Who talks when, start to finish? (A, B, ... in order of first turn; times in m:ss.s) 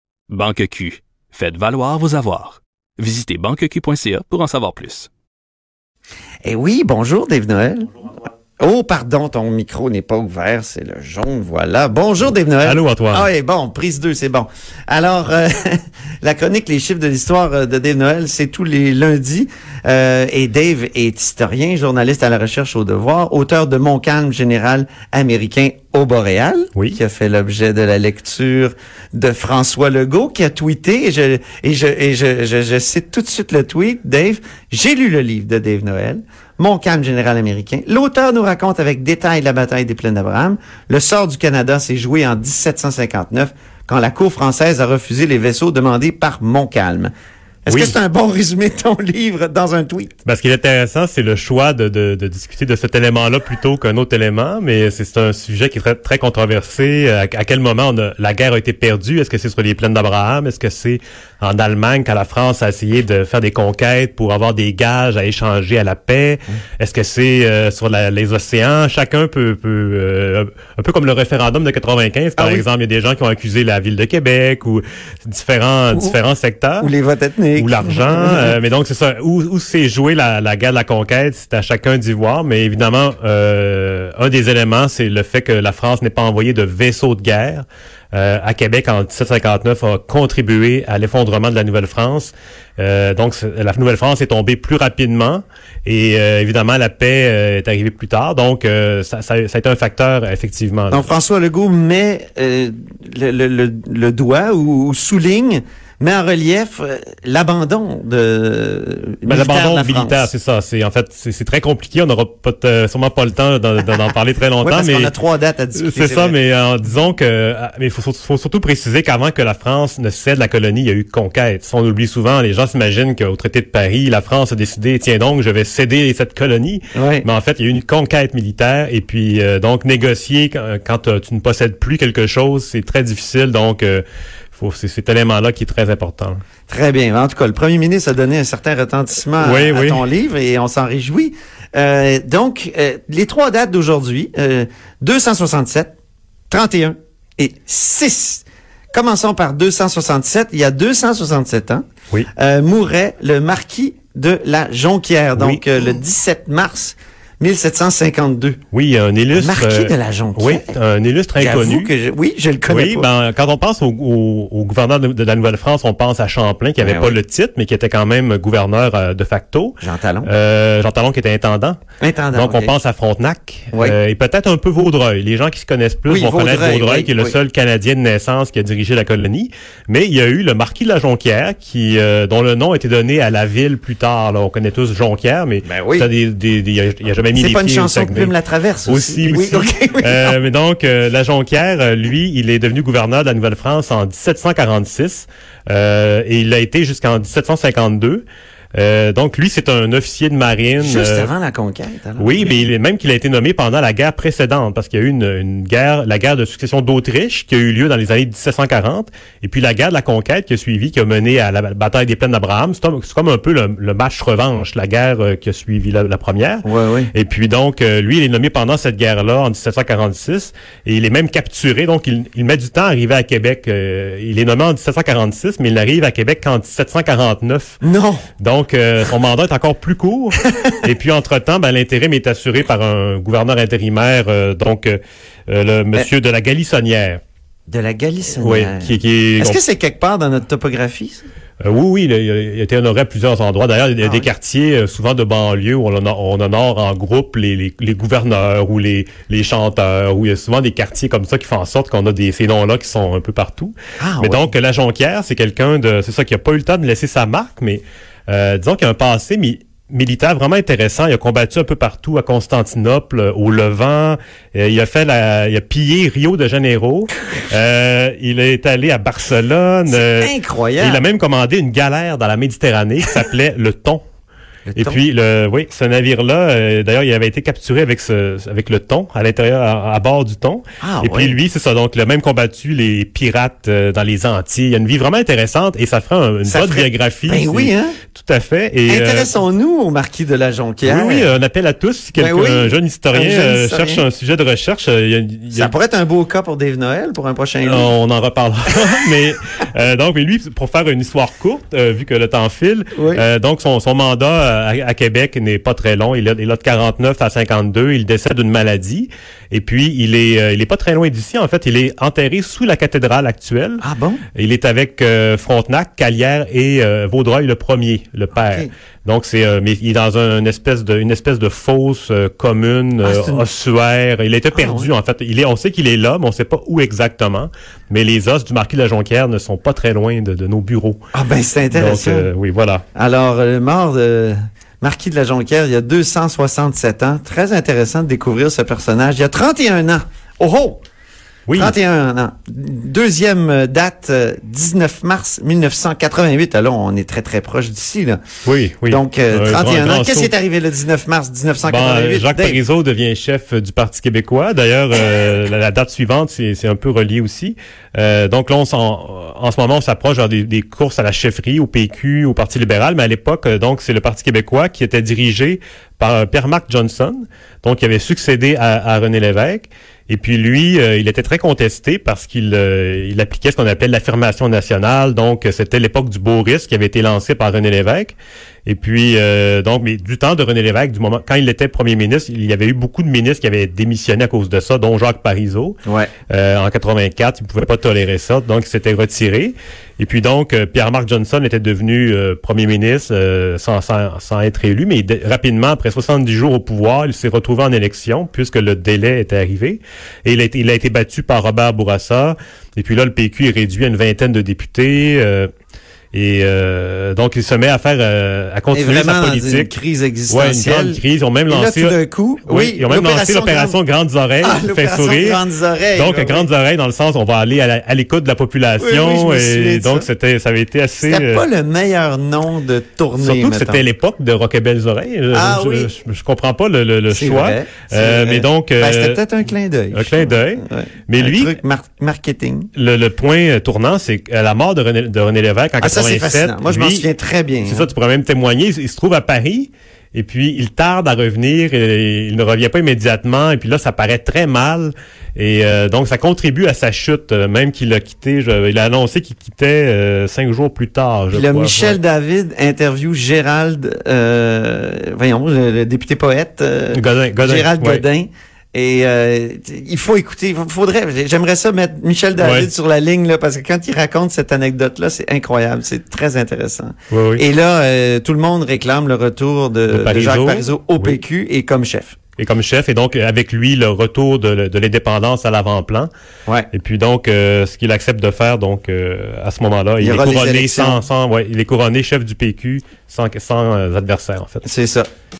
0:00.3-0:05.1 A
0:06.4-0:07.9 B
0:08.6-0:47.1 B
0:12.6-0:13.3 C
0:47.6-0:50.1 B
0:47.7-0:48.0 C
0:50.2-1:16.9 C
1:12.4-1:12.6 B
1:16.8-1:18.6 B
1:17.6-1:41.1 C
1:40.9-1:50.3 B
1:49.2-1:55.1 C
1:54.6-1:56.4 B
1:55.8-2:16.4 C
2:07.0-2:07.2 B
2:16.7-2:25.9 B
2:19.4-2:20.0 C
2:26.5-2:31.8 B
2:32.4-2:38.6 B
2:35.4-2:35.6 C
2:38.7-2:41.9 C
2:39.3-2:40.8 B
2:41.4-2:43.1 B
2:42.7-2:51.8 C
2:46.8-2:47.2 B
2:49.8-2:50.3 B
2:52.0-2:52.7 B
2:52.3-3:08.3 C
2:56.1-2:57.4 B
3:05.6-3:06.1 B
3:07.3-3:10.4 B
3:08.9-3:21.3 C
3:20.8-3:22.6 B
3:22.2-3:47.8 C
3:36.6-3:37.1 B
3:47.8-3:48.2 B
3:48.4-3:57.2 C
3:57.7-4:01.2 B
3:58.4-3:59.6 C
4:01.6-4:34.0 C
4:04.0-4:04.3 B
4:14.0-4:14.4 B
4:29.9-4:31.0 B
4:34.7-4:35.0 B
4:34.8-4:49.3 C
4:40.8-4:41.4 B
4:46.4-4:48.0 B
4:48.9-4:51.3 B
4:50.8-4:55.7 C
4:52.2-4:54.0 B
4:55.5-4:57.9 B
4:57.6-5:13.8 C
5:03.0-5:03.2 B
5:13.8-5:14.2 B
5:14.3-5:31.0 C
5:18.4-5:18.7 B
5:23.0-5:23.4 B
5:24.5-5:24.9 B
5:31.1-5:32.3 B
5:31.7-5:32.8 C
5:32.9-5:40.8 B
5:41.5-5:41.8 C
5:41.5-5:48.2 B
5:48.4-5:50.3 C
5:48.8-5:52.6 B
5:51.6-6:25.8 C
6:25.8-6:26.1 B
6:26.3-6:45.5 C
6:46.1-6:49.7 C
6:48.7-6:53.8 B
6:50.3-6:55.4 C
6:54.4-6:56.5 B
6:55.9-7:01.4 C
6:58.8-7:00.1 B
7:01.0-7:03.8 B
7:03.2-7:09.2 C
7:05.3-7:05.9 B
7:07.1-7:12.7 B
7:09.9-7:11.6 C
7:12.7-7:17.1 C
7:15.8-7:17.9 B
7:17.6-7:32.0 C
7:31.3-7:52.2 B
7:36.9-7:38.0 C
7:42.4-7:42.7 C
7:47.1-7:47.4 C
7:49.9-7:51.2 C
7:52.4-7:56.1 C
7:56.7-8:04.6 C
8:00.0-8:01.0 B
8:04.6-8:05.1 B